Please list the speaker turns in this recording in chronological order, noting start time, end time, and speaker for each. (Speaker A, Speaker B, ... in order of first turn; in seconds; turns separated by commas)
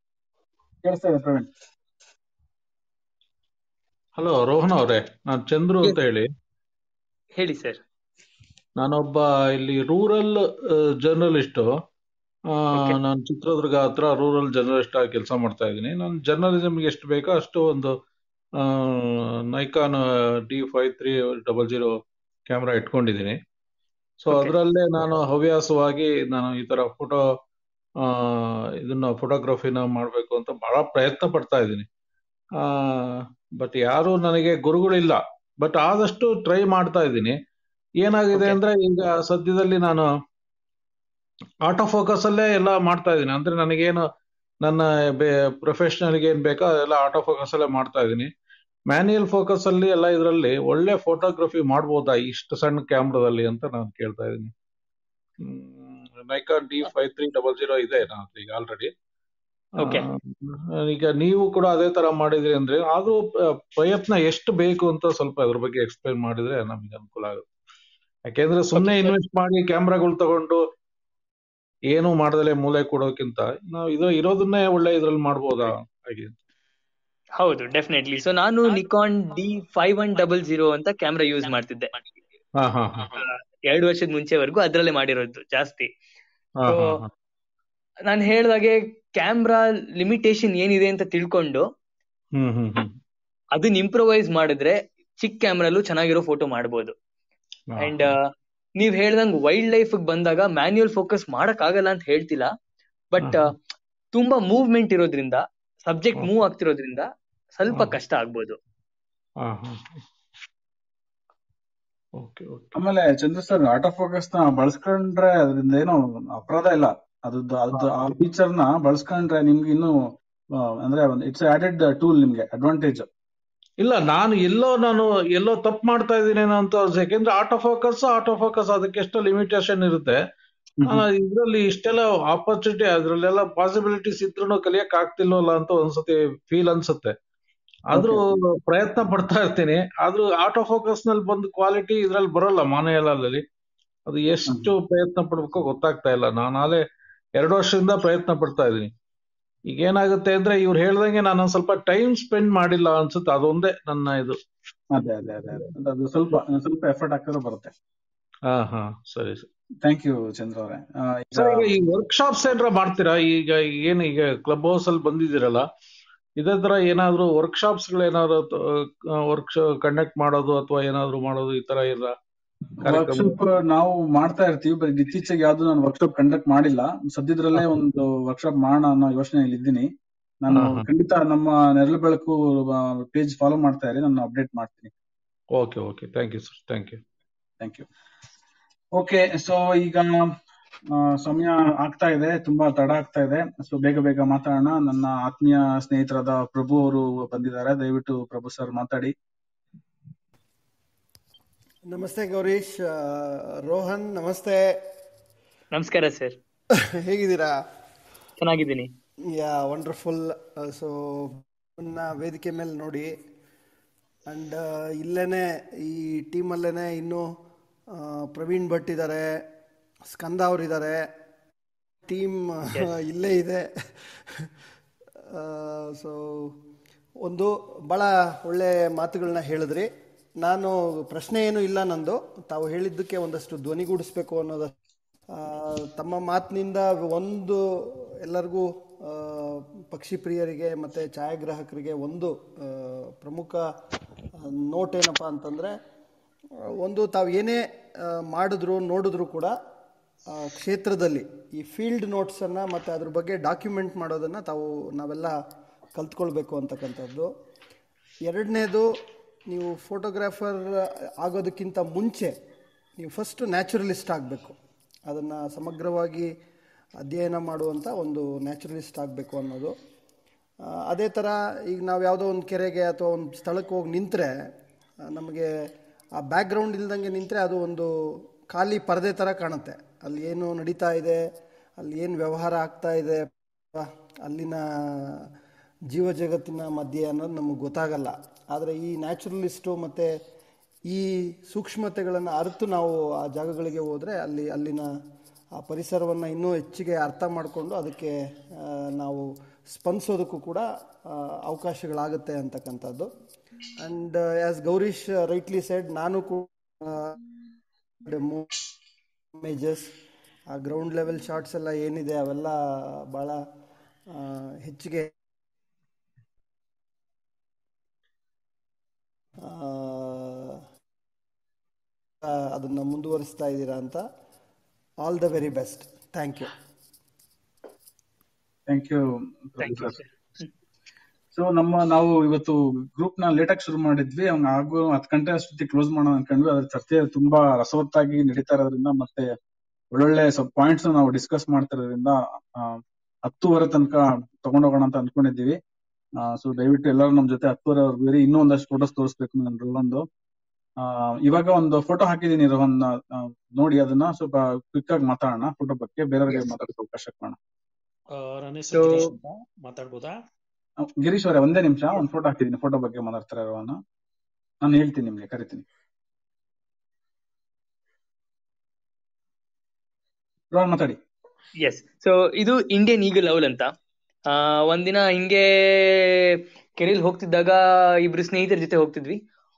Speaker A: 0.8-1.5, Speaker B: 4.2-6.3, Speaker C: 7.4-7.8, Speaker B: 8.8-11.7, Speaker B: 12.5-18.0, Speaker B: 18.6-23.4, Speaker B: 24.2-27.4, Speaker B: 28.0-31.9, Speaker B: 32.6-37.4, Speaker B: 38.0-40.1, Speaker B: 41.6-44.0, Speaker B: 44.6-48.3, Speaker B: 48.9-54.5, Speaker B: 55.4-58.9, Speaker B: 59.8-67.5, Speaker B: 68.3-70.6, Speaker C: 68.7-69.1, Speaker B: 71.9-76.3, Speaker C: 77.4-82.0, Speaker B: 82.6-83.1, Speaker C: 83.1-85.9, Speaker B: 86.6-87.1, Speaker C: 86.7-87.0, Speaker C: 88.1-91.7, Speaker B: 92.4-93.0, Speaker C: 93.5-96.9, Speaker B: 97.7-98.1, Speaker C: 97.8-98.2, Speaker C: 98.8-102.5, Speaker C: 103.1-103.5, Speaker B: 103.2-103.5, Speaker C: 104.1-108.6, Speaker B: 107.7-108.0, Speaker B: 109.4-110.0, Speaker B: 112.2-112.8, Speaker A: 112.8-123.1, Speaker B: 123.8-130.2, Speaker A: 130.8-131.1, Speaker B: 130.8-137.2, Speaker A: 137.9-138.4, Speaker B: 137.9-143.4, Speaker B: 144.1-146.8, Speaker B: 147.4-148.9, Speaker B: 149.7-154.4, Speaker A: 154.9-157.7, Speaker B: 158.5-159.5, Speaker A: 159.8-161.7, Speaker B: 161.3-165.7, Speaker B: 166.4-172.2, Speaker B: 172.8-173.4, Speaker A: 172.8-179.9, Speaker A: 180.4-184.9, Speaker B: 180.5-180.8, Speaker B: 185.6-187.0, Speaker A: 187.6-187.9, Speaker A: 188.9-190.3, Speaker A: 190.9-199.1, Speaker D: 201.9-204.6, Speaker C: 205.7-206.4, Speaker D: 207.0-207.5, Speaker C: 208.4-208.9, Speaker D: 209.3-213.1, Speaker D: 214.3-217.3, Speaker D: 217.9-219.3, Speaker D: 220.1-221.0, Speaker D: 222.1-223.7, Speaker D: 225.3-226.5, Speaker D: 227.2-229.9, Speaker D: 230.4-234.7, Speaker D: 235.3-237.6, Speaker D: 238.2-243.6, Speaker D: 244.4-245.7, Speaker D: 246.8-249.5, Speaker D: 250.3-255.3, Speaker D: 255.9-257.3, Speaker D: 258.3-258.9, Speaker D: 259.5-262.3, Speaker D: 263.0-264.6, Speaker D: 265.1-266.3, Speaker D: 267.0-269.7, Speaker D: 270.7-274.3, Speaker D: 275.1-275.5, Speaker D: 276.2-277.9, Speaker D: 278.5-281.2, Speaker D: 281.8-285.2, Speaker D: 285.9-290.1, Speaker D: 290.9-294.9, Speaker D: 295.6-303.1, Speaker D: 303.8-307.2, Speaker D: 308.1-308.6, Speaker D: 309.4-309.9, Speaker D: 310.5-312.6, Speaker D: 313.1-313.4, Speaker D: 314.1-315.1, Speaker D: 319.4-320.6, Speaker D: 322.2-324.1, Speaker D: 325.0-326.5, Speaker A: 328.7-330.0, Speaker C: 329.6-330.5, Speaker A: 331.3-339.3, Speaker A: 339.9-345.6, Speaker A: 346.2-350.1, Speaker A: 350.8-357.4, Speaker E: 358.1-360.2, Speaker A: 358.8-359.1, Speaker A: 360.8-363.8, Speaker A: 364.6-365.6, Speaker A: 370.5-371.0, Speaker C: 371.6-373.7, Speaker C: 374.3-379.2